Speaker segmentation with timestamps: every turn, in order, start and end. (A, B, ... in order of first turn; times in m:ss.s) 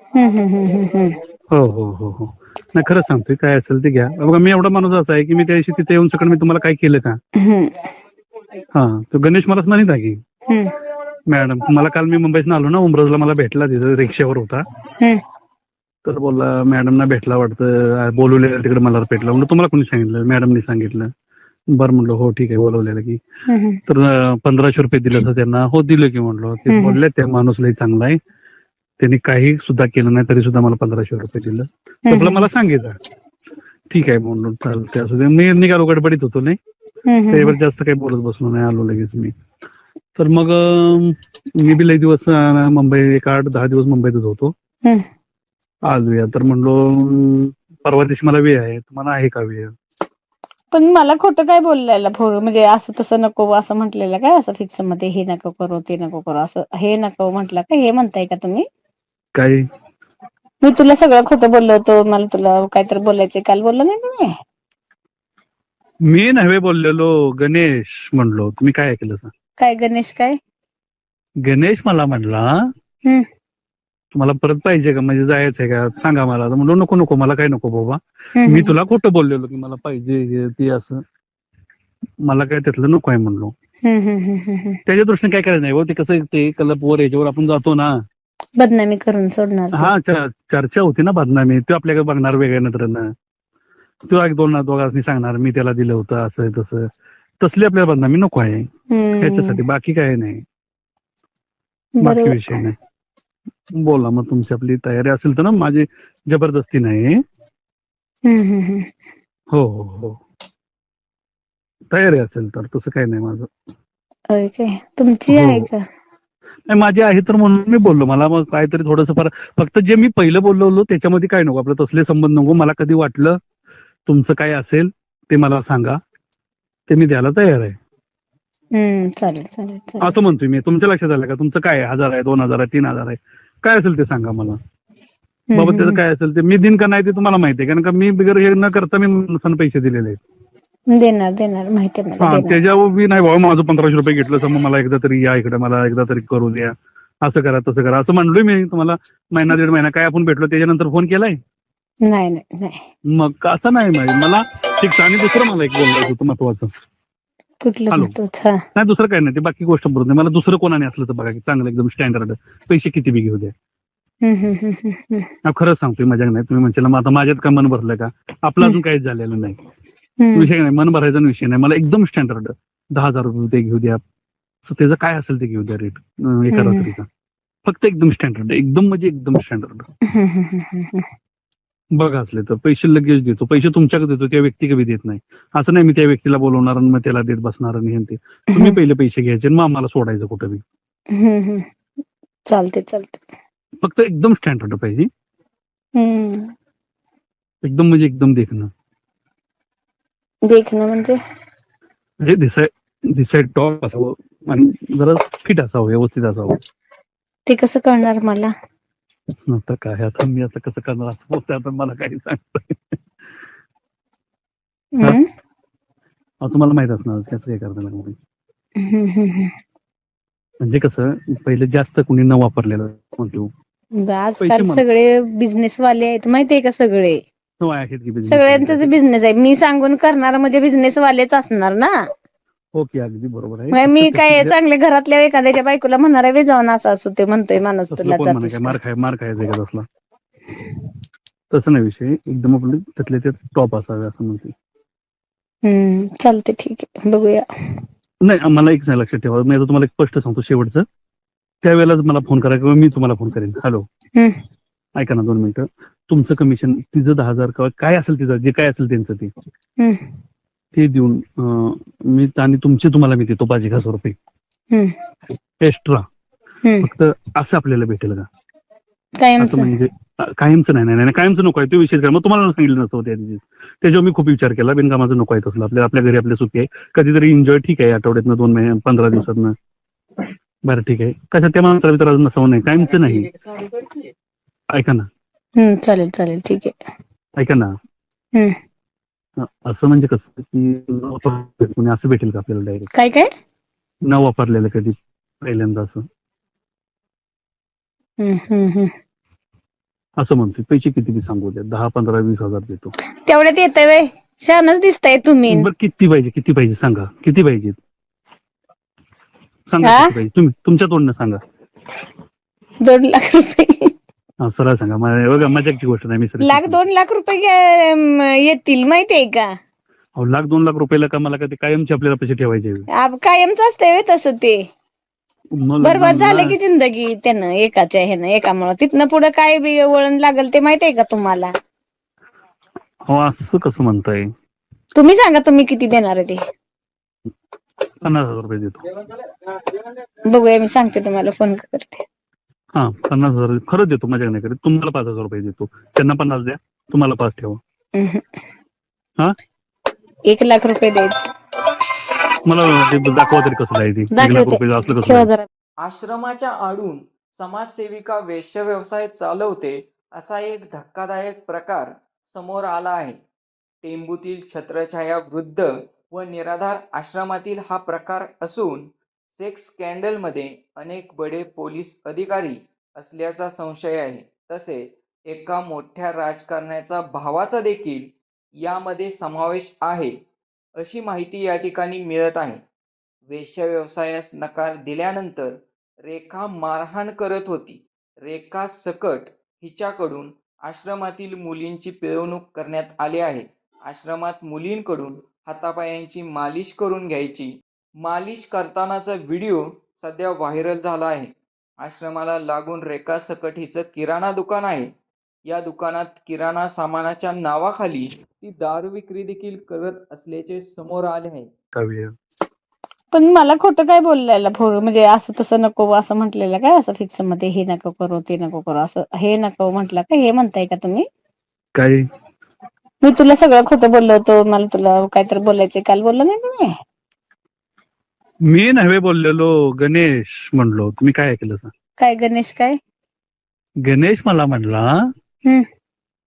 0:00.1-0:01.2 A
0:01.5-0:07.2 B
0:07.4-0:07.7 A
0:08.7-0:10.2 B
0:11.3-0:14.6 B
0:16.0-0:21.1 B
0:21.7-0:23.2 B
0:23.5-0:23.8 A
0:23.9-0:28.2 B
0:26.7-0:27.0 A
0:29.0-0:33.0 B
0:32.1-0:32.4 A
0:33.9-0:36.6 B
0:37.1-0:37.6 A
0:37.3-0:39.3 B
0:40.2-0:44.5 B
0:45.8-0:49.7 B
0:50.7-0:58.6 A
0:59.3-0:59.6 B
1:00.6-1:04.3 A
1:06.1-1:09.3 B
1:09.6-1:10.4 A
1:11.4-1:12.5 B
1:14.1-1:21.0 B
1:18.4-1:18.7 A
1:22.2-1:23.5 B
1:23.8-1:24.8 A
1:24.8-1:28.0 B
1:28.6-1:29.9 A
1:29.7-1:33.1 B
1:34.1-1:36.9 B
1:37.4-1:38.6 B
1:38.9-1:39.6 A
1:39.2-1:40.4 B
1:42.0-1:42.6 A
1:42.0-1:42.7 B
1:43.8-1:47.2 B
1:48.2-1:48.9 A
1:49.5-1:50.2 B
1:51.9-1:53.5 B
1:54.3-1:55.8 A
1:55.3-1:55.7 B
1:56.7-2:03.4 B
2:04.0-2:06.0 B
2:06.9-2:07.8 B
2:08.7-2:10.2 A
2:10.0-2:14.6 B
2:15.5-2:16.0 A
2:15.5-2:20.2 B
2:20.9-2:22.6 A
2:22.2-2:31.4 B
2:32.0-2:32.8 A
2:33.1-2:36.7 B
2:37.6-2:38.6 A
2:38.8-2:43.5 B
2:44.2-2:45.3 A
2:45.4-2:49.6 B
2:50.2-2:50.5 A
2:50.3-2:54.0 B
2:54.6-2:57.0 B
2:56.5-2:56.9 A
2:57.6-2:59.9 B
3:00.1-3:01.1 A
3:02.0-3:10.6 B
3:11.2-3:11.6 A
3:12.5-3:13.2 A
3:13.8-3:15.1 B
3:16.0-3:16.5 A
3:17.6-3:18.7 B
3:20.5-3:21.2 A
3:22.2-3:26.6 B
3:27.5-3:28.5 A
3:29.5-3:33.0 B
3:35.0-3:35.2 A
3:36.4-3:38.2 B
3:38.8-3:39.5 A
3:40.6-3:43.5 B
3:44.0-3:47.2 A
3:44.4-3:44.8 B
3:47.6-3:48.9 B
3:48.3-3:51.9 A
3:52.8-3:54.5 B
3:53.7-3:58.8 A
3:57.9-3:59.8 B
4:01.5-4:04.5 B
4:05.6-4:07.4 A
4:08.2-4:10.8 B
4:11.6-4:13.8 B
4:15.0-4:19.3 B
4:19.8-4:20.0 A
4:20.7-4:24.1 B
4:25.6-4:26.0 B
4:26.8-4:28.2 B
4:29.2-4:29.7 A
4:29.4-4:39.5 B
4:40.6-4:43.3 B
4:44.7-4:45.0 B
4:45.6-4:46.7 A
4:47.4-4:47.7 B
4:49.4-4:52.9 B
4:52.9-4:53.3 A
4:54.0-4:56.0 B
4:58.2-4:58.9 A
5:00.2-5:02.9 B
5:03.2-5:05.7 A
5:05.5-5:07.8 B
5:09.7-5:11.4 B
5:09.8-5:10.1 A
5:12.8-5:13.9 A
5:14.4-5:16.8 B
5:16.4-5:19.5 A
5:20.2-5:22.9 B
5:23.0-5:24.6 A
5:25.6-5:26.5 B
5:25.8-5:31.5 A
5:33.1-5:34.3 B
5:34.9-5:36.4 A
5:38.0-5:38.8 B
5:40.3-5:42.0 A
5:42.7-5:47.6 B
5:48.0-5:48.2 A
5:50.3-5:51.3 A
5:52.4-5:55.3 B
5:54.1-5:55.5 A
5:55.8-6:03.2 C
6:03.8-6:20.2 C
6:20.8-6:22.6 C
6:23.3-6:44.9 C
6:45.4-6:51.5 C
6:51.7-6:52.1 B
6:53.1-7:01.0 A
7:01.7-7:02.0 B
7:03.0-7:06.7 A
7:08.5-7:11.7 B
7:12.0-7:12.8 A
7:13.8-7:14.9 B